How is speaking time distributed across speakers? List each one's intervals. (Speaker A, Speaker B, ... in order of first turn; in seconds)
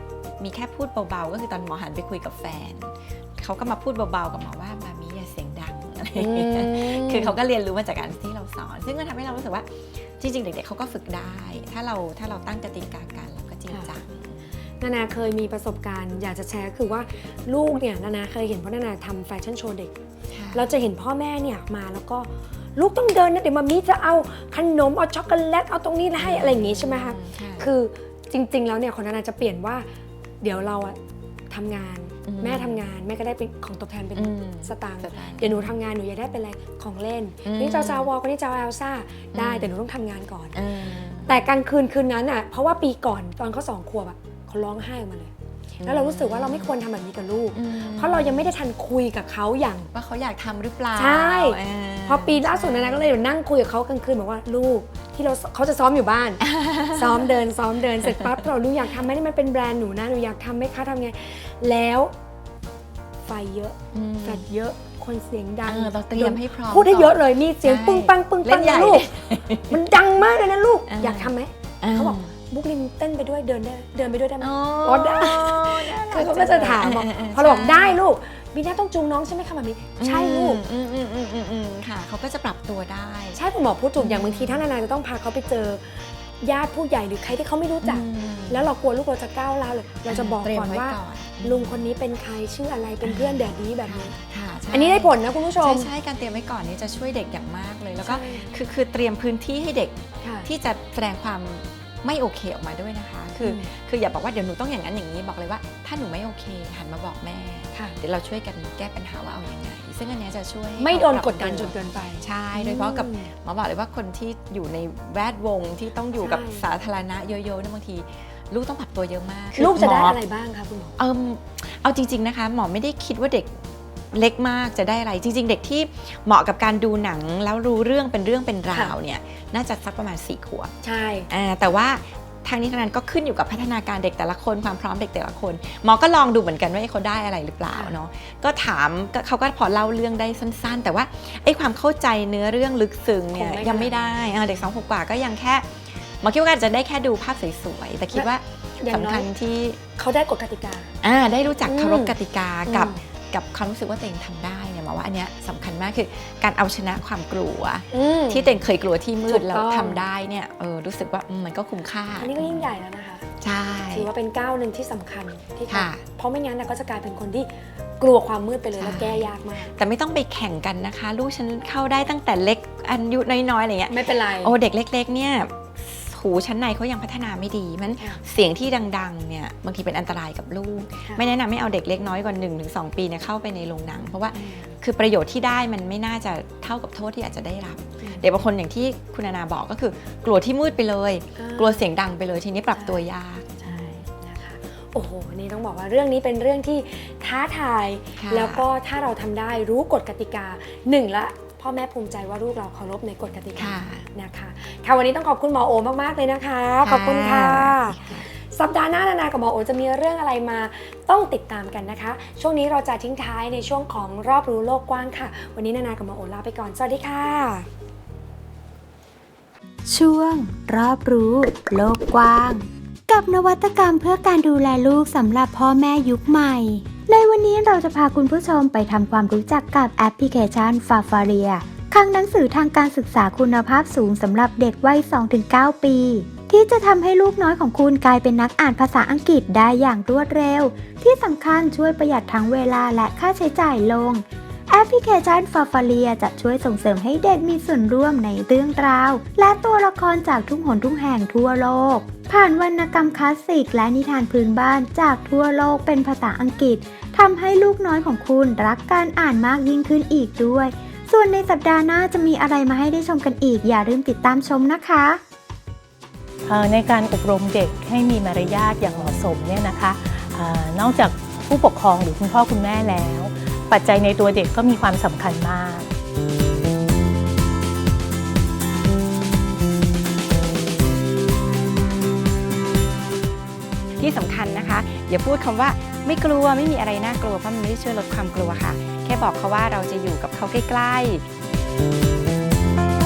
Speaker A: 0.4-14.5, 20.3-20.7, 26.2-27.7, 32.3-32.9, 34.2-35.7, 37.4-38.1, 39.3-39.7, 40.5-41.4, 45.8-46.7, 47.5-48.5, 49.9-53.1, 56.5-57.2, 63.9-64.4, 65.7-69.9, 70.9-72.3, 74.4-78.0, 80.0-83.4, 84.0-84.6, 87.8-88.7, 90.1-91.9, 93.0-120.2, 121.0-123.6, 124.1-130.7, 131.3-149.8, 151.0-162.7, 163.4-164.1, 165.7-166.0, 168.8-193.6, 198.2-198.6, 203.6-204.1, 206.8-208.3, 284.0-291.2
Speaker B: 6.2-7.4, 14.8-19.9, 20.5-29.9, 30.4-31.0, 31.5-40.6, 41.2-49.9, 51.0-62.1, 63.2-69.1, 69.7-80.6, 83.3-94.2, 94.7-95.9, 98.0-98.5, 100.2-100.5, 103.4-103.7, 110.8-113.3, 116.1-116.7, 119.5-121.0, 130.8-131.3, 143.3-144.0, 148.8-149.3, 150.0-150.9, 151.6-153.0, 157.9-158.6, 159.3-160.0, 162.2-163.2, 163.9-169.7, 173.9-174.6, 184.3-184.8, 188.0-188.3, 191.4-191.9, 192.7-193.0, 193.6-217.7
Speaker C: 219.9-265.2
Speaker D: 266.4-275.9